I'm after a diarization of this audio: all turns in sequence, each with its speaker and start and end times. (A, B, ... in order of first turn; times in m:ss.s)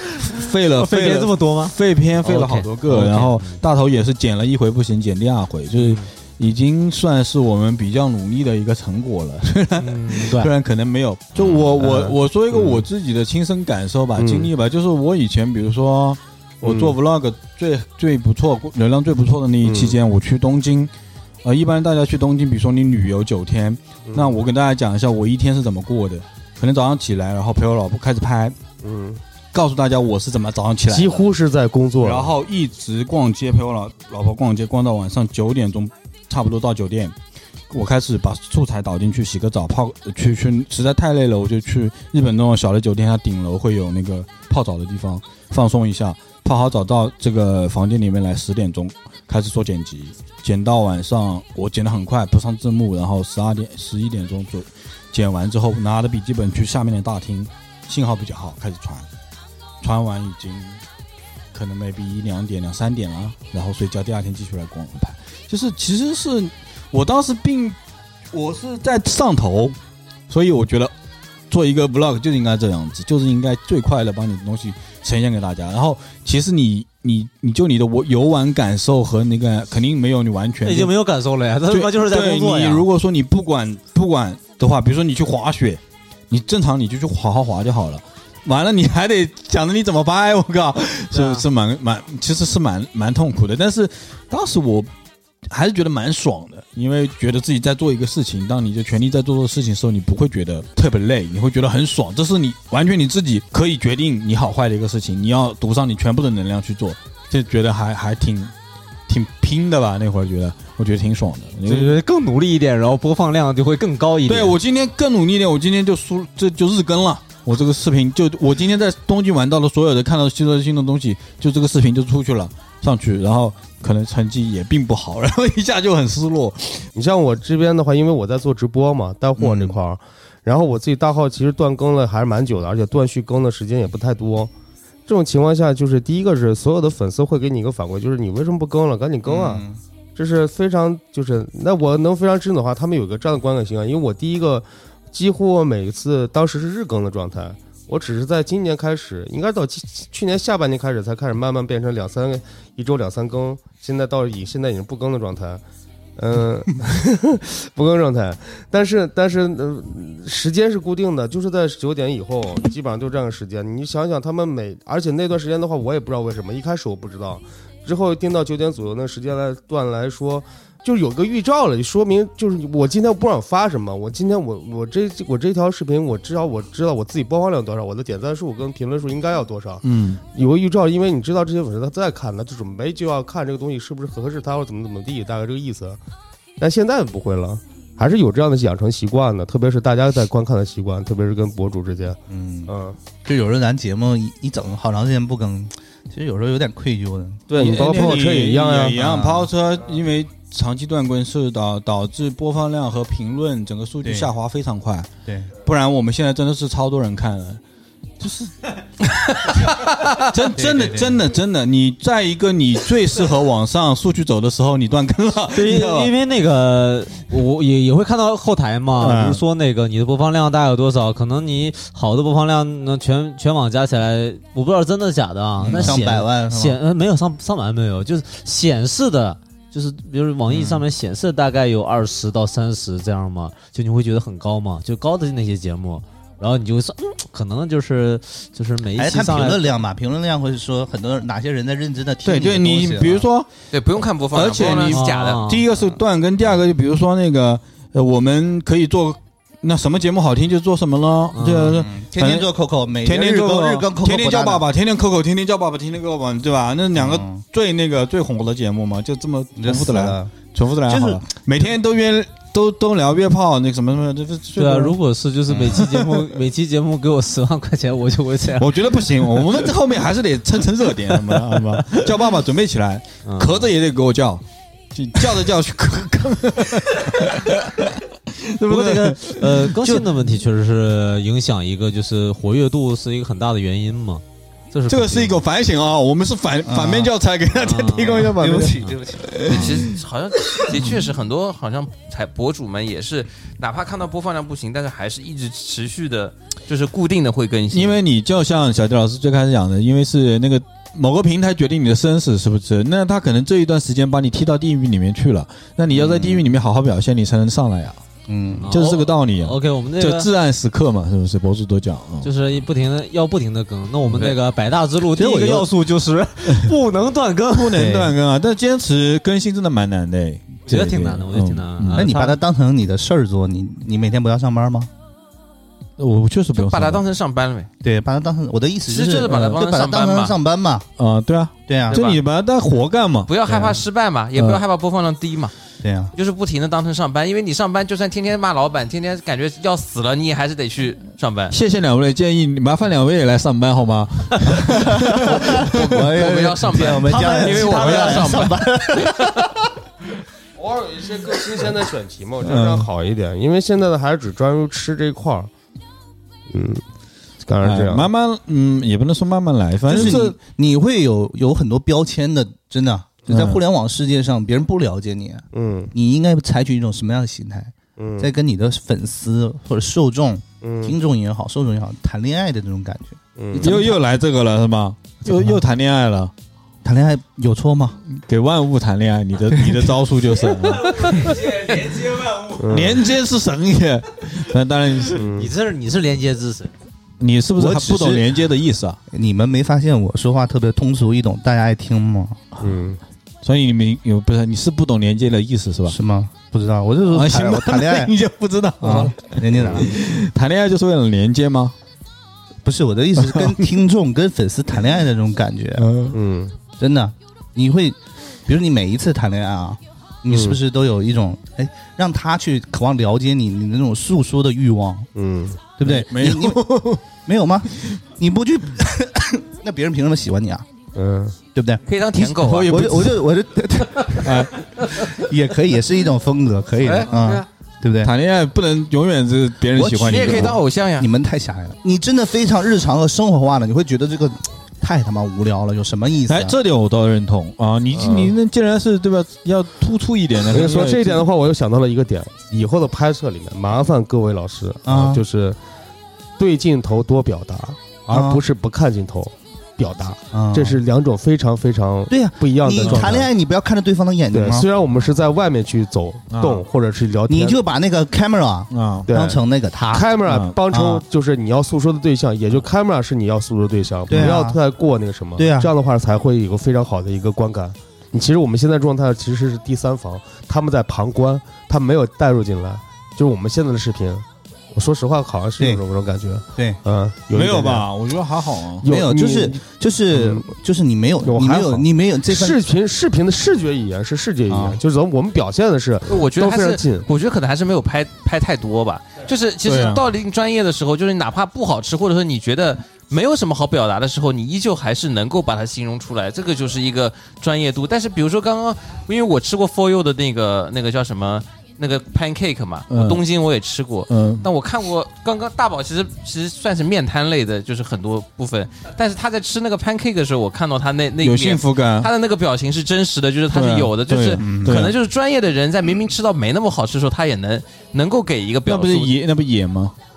0:00.2-0:20.9 A
0:00.7-0:03.6 B
0:05.8-0:06.1 B
0:09.8-0:10.5 B
0:11.8-0:12.8 C
0:14.2-0:14.5 C
0:16.6-0:16.9 C
0:19.6-0:19.9 C
0:21.4-0:28.6 A
0:24.1-0:24.3 C
0:28.8-0:29.2 C
0:29.5-0:31.2 A
0:30.9-0:32.3 C
0:32.0-0:37.1 A
0:37.7-0:59.1 A
0:59.8-1:00.8 A
1:01.5-1:07.8 A
1:08.3-1:09.8 A
1:10.3-1:10.9 A
1:11.5-1:20.9 A
1:20.6-1:22.8 B
1:21.7-1:34.9 A
1:31.1-1:31.4 B
1:35.5-1:48.5 A
1:49.1-1:52.0 A
1:51.6-1:54.6 B
1:54.2-2:06.9 A
2:06.9-2:14.5 C
2:09.4-2:09.8 D
2:15.1-2:19.6 C
2:19.2-2:19.8 D
2:20.2-2:35.6 C
2:36.2-2:59.8 C
2:59.8-3:00.2 A
3:00.3-3:06.0 C
3:06.6-3:13.0 C
3:12.3-3:12.7 D
3:13.2-3:17.6 D
3:17.5-3:19.0 C
3:17.6-3:27.6 A
3:18.9-3:19.5 D
3:24.0-3:24.3 D
3:25.2-3:25.5 D
3:28.2-3:28.5 A
3:29.4-3:36.1 A
3:30.5-3:31.2 D
3:35.5-3:59.7 B
3:39.0-3:39.4 A
3:45.6-3:46.1 A
3:45.6-3:46.8 D
3:50.5-3:50.8 A
3:59.0-4:03.2 D
4:02.2-4:03.5 A
4:03.7-4:05.4 E
4:04.3-4:12.5 A
4:04.9-4:05.6 B
4:11.3-4:11.8 B
4:11.7-4:14.6 D
4:13.0-4:25.0 A
4:16.9-4:17.4 D
4:19.6-4:21.2 D
4:24.6-4:28.8 B
4:25.5-4:26.3 A
4:28.6-4:40.1 A
4:31.2-4:32.0 B
4:33.2-4:33.7 B
4:38.6-4:45.4 B
4:44.9-4:50.0 A
4:46.6-4:47.1 D
4:47.6-4:48.9 B
4:48.1-4:49.8 D
4:49.4-4:58.0 E
4:57.7-5:08.0 A
5:05.9-5:06.4 D
5:08.3-5:08.7 D
5:08.6-5:10.3 B
5:08.7-5:12.3 A
5:12.2-5:17.8 B
5:15.2-5:15.6 A
5:17.5-5:22.1 A
5:17.7-5:18.1 D
5:20.7-5:22.4 B
5:22.0-5:24.9 D
5:26.0-5:27.0 A
5:26.5-5:27.7 E
5:27.8-5:30.9 D
5:28.9-5:30.4 E
5:31.0-5:33.3 A
5:31.7-5:32.0 D
5:31.9-5:32.2 E
5:33.3-5:35.5 E
5:34.3-5:34.6 A
5:35.8-5:36.1 D
5:36.1-5:41.6 E
5:41.5-5:46.0 A
5:44.7-5:49.5 D
5:45.5-5:49.2 E
5:47.1-5:48.5 B
5:50.6-5:55.5 C
5:52.4-5:52.9 A
5:56.5-5:56.8 C
5:57.4-5:58.1 C
5:57.6-6:00.4 A
5:59.9-6:14.0 D
6:03.3-6:03.6 A
6:05.5-6:05.9 C
6:08.0-6:08.3 C
6:10.6-6:11.0 C
6:13.4-6:13.8 C
6:13.6-6:16.3 A
6:15.3-6:15.6 D
6:16.8-6:18.0 D
6:18.1-6:21.1 A
6:19.5-6:19.9 D
6:20.8-6:22.6 B
6:22.6-6:23.0 C
6:22.7-6:25.3 A
6:25.1-6:25.5 C
6:25.3-6:26.7 B
6:27.2-6:29.0 A
6:27.6-6:28.4 D
6:29.1-6:32.6 D
6:32.6-6:33.0 C
6:33.4-6:36.0 A
6:35.9-6:38.1 D
6:37.0-6:41.7 A
6:38.8-6:39.9 D
6:42.6-6:45.9 D
6:43.2-6:43.8 A
6:45.8-6:46.2 A
6:46.1-6:46.5 C
6:46.8-6:55.1 D
6:50.3-6:50.6 C
6:55.1-6:55.6 C
6:55.8-6:56.6 D
6:55.8-6:57.0 A
6:57.2-7:00.6 D
7:00.9-7:01.4 C
7:01.5-7:08.1 D
7:01.8-7:02.9 E
7:02.4-7:03.3 A
7:04.2-7:04.6 A
7:06.8-7:07.4 E
7:08.0-7:10.6 A
7:09.7-7:16.6 D
7:10.0-7:11.1 E
7:16.3-7:21.2 A
7:18.0-7:18.3 C
7:20.5-7:25.6 C
7:24.8-7:25.2 D
7:26.4-7:33.3 C
7:28.1-7:28.4 D
7:30.3-7:30.8 D
7:32.1-7:34.7 D
7:32.8-7:33.2 A
7:34.3-7:37.6 C
7:36.3-7:36.6 A
7:37.3-7:40.2 D
7:38.7-7:39.1 A
7:39.1-7:57.9 C
7:40.2-7:40.5 A
7:40.7-7:41.0 D
7:44.1-7:44.6 D
7:45.4-7:45.7 D
7:56.5-7:56.8 D
7:57.3-7:58.9 A
7:58.8-7:59.6 C
7:58.8-8:02.6 D
8:00.1-8:00.4 C
8:01.2-8:07.1 C
8:04.5-8:04.8 D
8:06.1-8:39.1 E
8:09.6-8:10.0 A
8:22.9-8:23.2 A
8:24.1-8:24.5 A
8:31.2-8:32.1 A
8:33.5-8:35.0 A
8:34.4-8:34.9 D
8:38.6-8:39.9 A